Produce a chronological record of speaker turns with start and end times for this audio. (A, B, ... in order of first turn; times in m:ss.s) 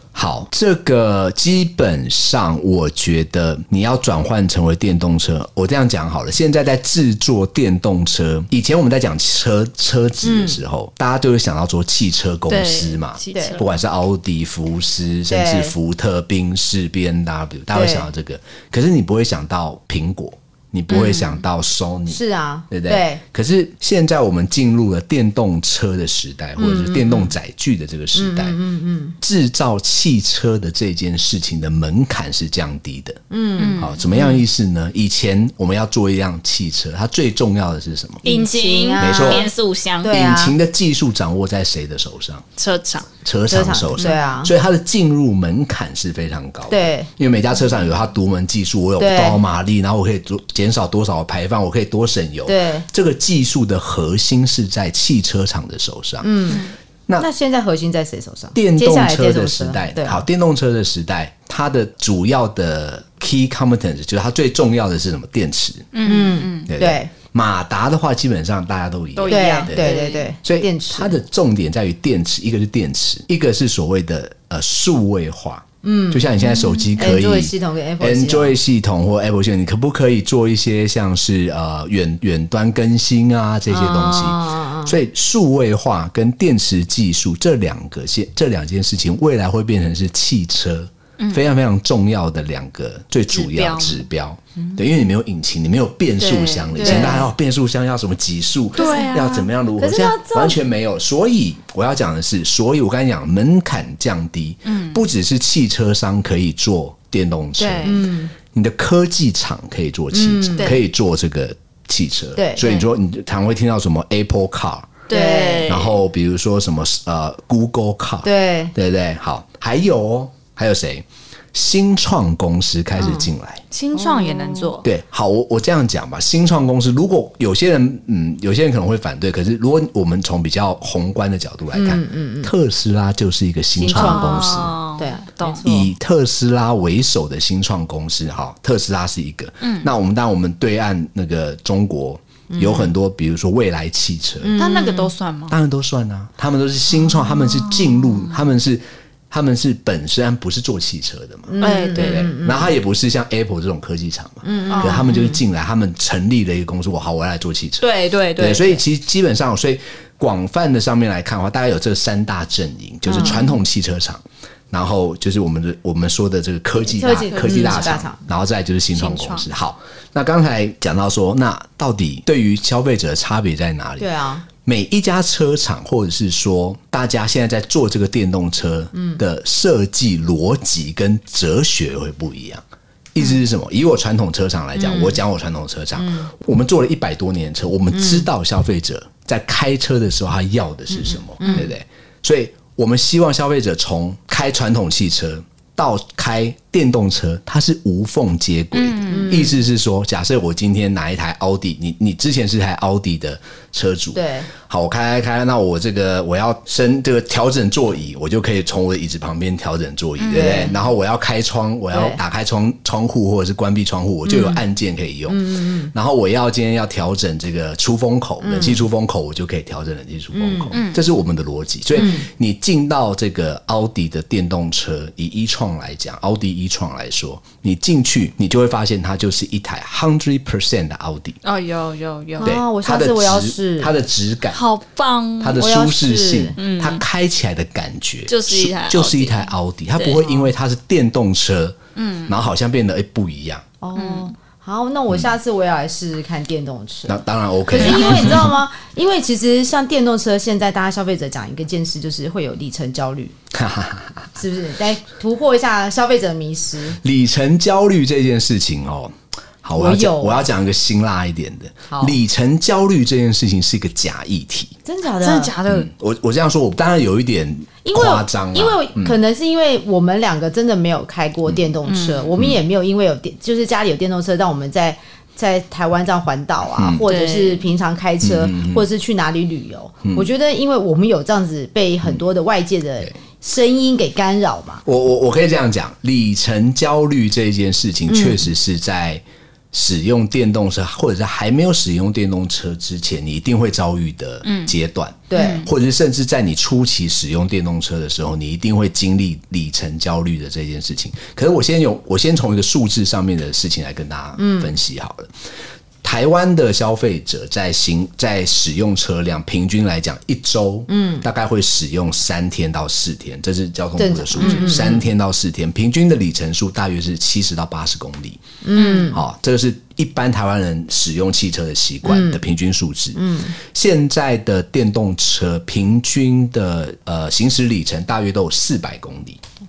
0:00.1-0:28.6 A
0:10.2-0:10.6 B
0:12.5-0:13.7 C
0:15.3-0:15.7 B
0:17.7-0:18.1 B
0:20.9-0:21.4 C
0:22.1-0:23.2 B
0:26.6-0:27.3 B
0:28.1-0:29.2 B
0:29.2-0:33.2 A
0:33.3-0:34.4 B
0:33.6-0:34.3 C
0:33.8-0:38.2 A
0:38.2-0:40.1 C
0:38.2-0:40.6 B
0:39.0-0:39.5 A
0:40.1-0:42.5 A
0:42.6-0:43.1 C
0:43.2-0:56.5 A
0:43.5-0:44.5 B
0:46.7-0:47.1 B
0:49.0-0:49.4 B
0:52.5-0:52.9 B
0:56.2-1:00.2 B
0:58.5-1:06.0 A
1:05.9-1:06.7 C
1:06.0-1:07.1 B
1:06.7-1:55.1 A
1:09.2-1:10.3 C
1:09.3-1:11.2 B
1:15.8-1:16.3 B
1:16.4-1:16.9 C
1:17.0-1:18.6 B
1:23.7-1:25.0 B
1:31.2-1:31.5 C
1:33.3-1:34.0 C
1:36.2-1:37.3 C
1:36.8-1:37.3 B
1:38.8-1:39.4 C
1:38.8-1:40.6 B
1:44.7-1:45.0 C
1:47.6-1:48.1 C
1:47.8-1:48.3 B
1:50.1-1:50.8 B
1:52.4-1:52.7 B
1:55.1-1:55.8 B
1:55.1-1:56.0 C
1:55.7-2:03.6 A
1:58.2-1:58.7 B
2:03.0-2:03.3 B
2:03.7-2:04.9 C
2:04.0-2:04.8 B
2:04.8-2:14.8 A
2:11.7-2:12.5 B
2:13.8-2:15.9 B
2:13.9-2:15.6 C
2:15.6-2:24.6 A
2:19.6-2:19.9 C
2:22.5-2:22.9 B
2:24.4-2:25.1 B
2:24.6-2:25.6 C
2:25.5-3:51.4 A
2:27.3-2:28.4 C
2:31.5-2:32.8 B
2:31.6-2:32.3 C
2:34.4-2:35.4 B
2:34.7-2:35.2 C
2:37.8-2:38.8 C
2:43.1-2:43.4 B
2:43.2-2:43.5 C
2:46.8-2:48.2 B
2:47.3-2:48.0 C
2:48.9-2:49.5 C
2:54.0-2:54.4 B
2:58.9-2:59.2 B
3:04.8-3:05.2 C
3:06.0-3:06.3 B
3:07.9-3:08.3 B
3:11.4-3:11.7 B
3:18.7-3:19.5 C
3:19.1-3:19.6 B
3:24.1-3:24.5 B
3:30.2-3:30.8 C
3:30.3-3:30.7 B
3:31.9-3:32.2 B
3:34.3-3:34.6 B
3:35.3-3:35.9 B
3:38.4-3:38.8 B
3:40.3-3:40.8 B
3:40.7-3:41.0 C
3:42.0-3:42.3 B
3:51.4-3:52.6 C
3:52.4-3:53.9 B
3:52.4-3:54.6 A
3:54.5-3:55.6 C
3:55.4-4:03.6 A
3:55.6-3:56.6 B
3:56.6-3:57.0 C
3:58.3-4:00.4 C
4:02.0-4:02.4 C
4:03.8-4:13.4 B
4:04.0-4:04.3 C
4:07.1-4:08.6 A
4:07.8-4:08.4 C
4:13.5-4:14.4 A
4:14.4-4:17.0 B
4:17.0-4:24.7 A
4:19.8-4:20.5 B
4:21.9-4:22.2 B
4:24.8-4:25.5 B
4:25.2-4:25.9 C
4:25.7-4:29.2 A
4:27.8-4:44.8 B
4:31.9-4:32.3 C
4:36.8-4:37.0 A
4:37.1-4:37.7 C
4:38.2-4:38.9 A
4:44.8-5:05.3 A
4:48.1-4:48.4 B
4:54.4-4:54.7 C
4:55.3-4:55.7 B
4:55.4-4:55.7 C
5:04.4-5:04.7 B
5:06.0-5:18.4 A
5:10.9-5:11.2 B
5:14.0-5:15.0 B
5:14.4-5:15.0 C
5:18.6-5:19.2 B
5:18.8-5:19.1 C
5:19.1-5:29.4 A
5:22.0-5:22.4 B
5:23.2-5:23.6 B